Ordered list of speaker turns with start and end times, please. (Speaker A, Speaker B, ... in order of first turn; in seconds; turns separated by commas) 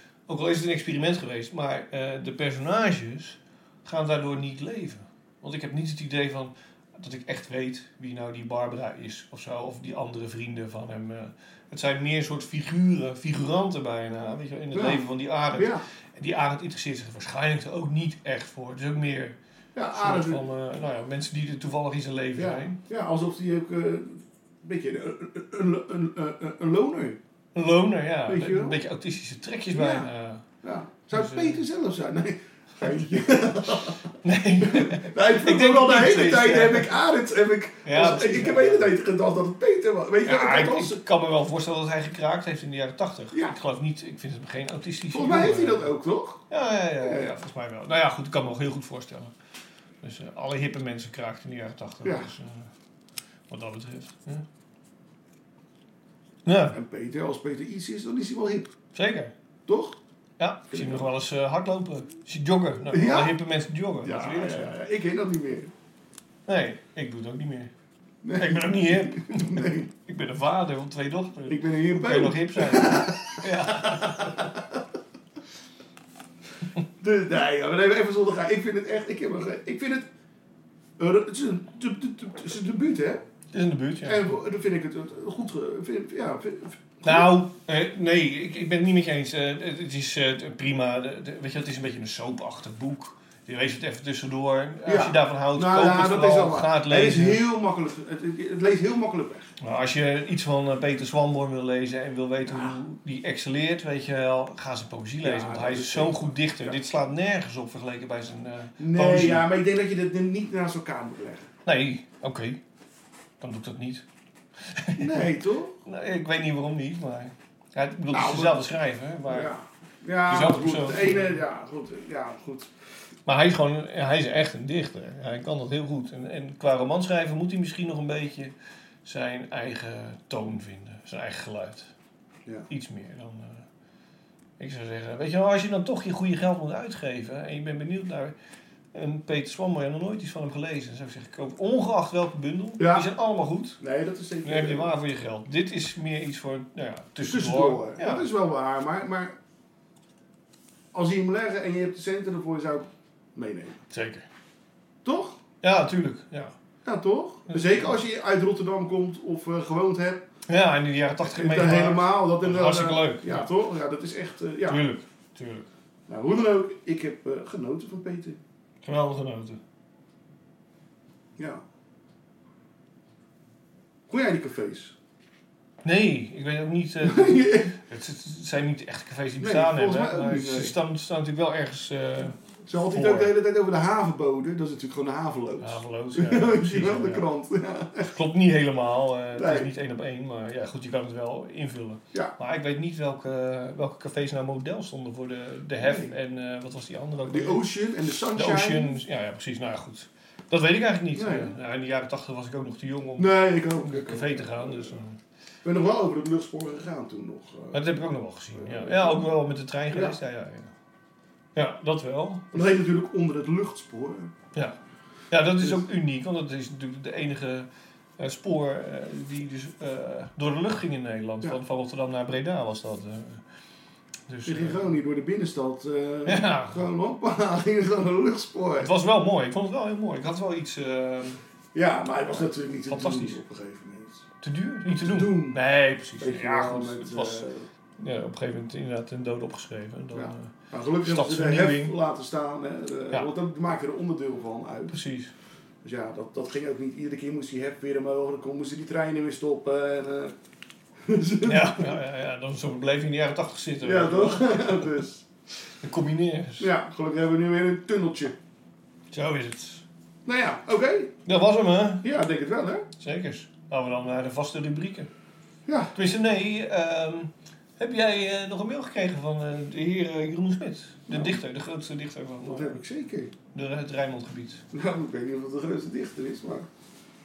Speaker A: 0.3-19.4, Speaker B: 14.7-15.0, Speaker B: 15.5-15.8, Speaker B: 19.8-20.4, Speaker A: 19.9-22.8, Speaker B: 22.4-27.2, Speaker A: 27.6-30.4, Speaker B: 28.3-28.8, Speaker B: 29.7-30.1, Speaker B: 30.6-34.1, Speaker A: 31.1-31.6, Speaker A: 34.2-36.9, Speaker B: 34.6-41.0, Speaker A: 37.9-38.9, Speaker A: 40.2-45.9, Speaker B: 43.3-43.6, Speaker B: 45.1-46.5, Speaker A: 46.5-49.3, Speaker B: 47.0-47.4, Speaker A: 50.0-52.7, Speaker B: 52.0-52.3, Speaker A: 53.5-54.5, Speaker A: 56.5-56.8, Speaker B: 56.7-58.7, Speaker A: 58.9-59.3, Speaker B: 59.7-60.0, Speaker A: 60.4-64.8, Speaker B: 60.7-61.1, Speaker B: 62.9-63.4, Speaker B: 64.0-65.7, Speaker A: 66.5-67.7, Speaker B: 68.2-69.9, Speaker A: 68.4-74.4, Speaker B: 71.5-74.8, Speaker B: 77.0-80.1, Speaker B: 81.0-83.2, Speaker A: 83.5-84.3, Speaker B: 84.0-87.3, Speaker A: 87.0-97.4, Speaker B: 94.9-99.5, Speaker A: 99.6-109.5, Speaker B: 102.5-102.8, Speaker B: 105.2-106.8, Speaker B: 108.8-111.5, Speaker A: 111.7-112.6, Speaker A: 113.4-114.0, Speaker A: 114.7-115.3, Speaker B: 115.0-115.8, Speaker A: 115.8-119.5, Speaker B: 118.1-118.7, Speaker B: 119.3-122.7, Speaker A: 120.3-121.4, Speaker A: 123.3-128.5, Speaker A: 129.1-131.9, Speaker A: 132.7-133.7, Speaker A: 134.6-138.3, Speaker A: 138.9-143.8, Speaker B: 142.8-143.1, Speaker B: 143.8-144.9, Speaker A: 144.4-148.3, Speaker B: 147.2-149.4, Speaker B: 150.9-153.8, Speaker A: 153.9-154.3, Speaker B: 155.0-155.4, Speaker A: 155.6-156.6, Speaker B: 156.8-160.2, Speaker A: 157.5-158.0, Speaker A: 160.5-163.5, Speaker B: 161.2-164.8, Speaker A: 164.7-165.7, Speaker B: 166.1-168.4, Speaker A: 168.8-169.6, Speaker B: 171.4-171.6, Speaker B: 174.1-174.9, Speaker A: 175.8-183.3, Speaker B: 177.0-177.8, Speaker B: 179.4-180.8, Speaker B: 182.7-188.1, Speaker A: 185.6-187.3, Speaker A: 188.1-197.6, Speaker B: 189.3-189.7, Speaker B: 195.8-196.1, Speaker B: 197.3-199.0, Speaker A: 198.3-205.2, Speaker B: 201.2-201.6, Speaker B: 203.2-205.0, Speaker B: 205.6-207.9, Speaker A: 207.7-210.7, Speaker B: 208.5-209.3, Speaker B: 209.9-210.2, Speaker A: 211.6-212.6, Speaker B: 212.5-214.3, Speaker A: 215.3-223.4, Speaker A: 224.3-224.9, Speaker B: 224.4-228.9, Speaker A: 226.2-226.8, Speaker A: 228.8-231.4, Speaker B: 231.7-234.3, Speaker A: 232.9-233.4, Speaker A: 234.4-237.5, Speaker B: 235.0-235.6, Speaker B: 236.2-237.7, Speaker A: 238.0-241.9, Speaker B: 240.1-245.0, Speaker A: 244.9-245.3, Speaker B: 245.8-250.3, Speaker B: 251.1-252.0, Speaker A: 251.4-255.0, Speaker B: 253.8-255.2, Speaker A: 255.8-256.7, Speaker B: 256.6-258.4, Speaker A: 259.1-259.8, Speaker B: 260.2-261.1, Speaker A: 261.2-262.1, Speaker B: 262.0-262.9, Speaker A: 263.0-265.1, Speaker B: 265.7-265.9, Speaker A: 265.9-272.8, Speaker B: 271.1-271.4, Speaker B: 272.4-273.3, Speaker A: 273.5-274.6, Speaker B: 274.7-276.7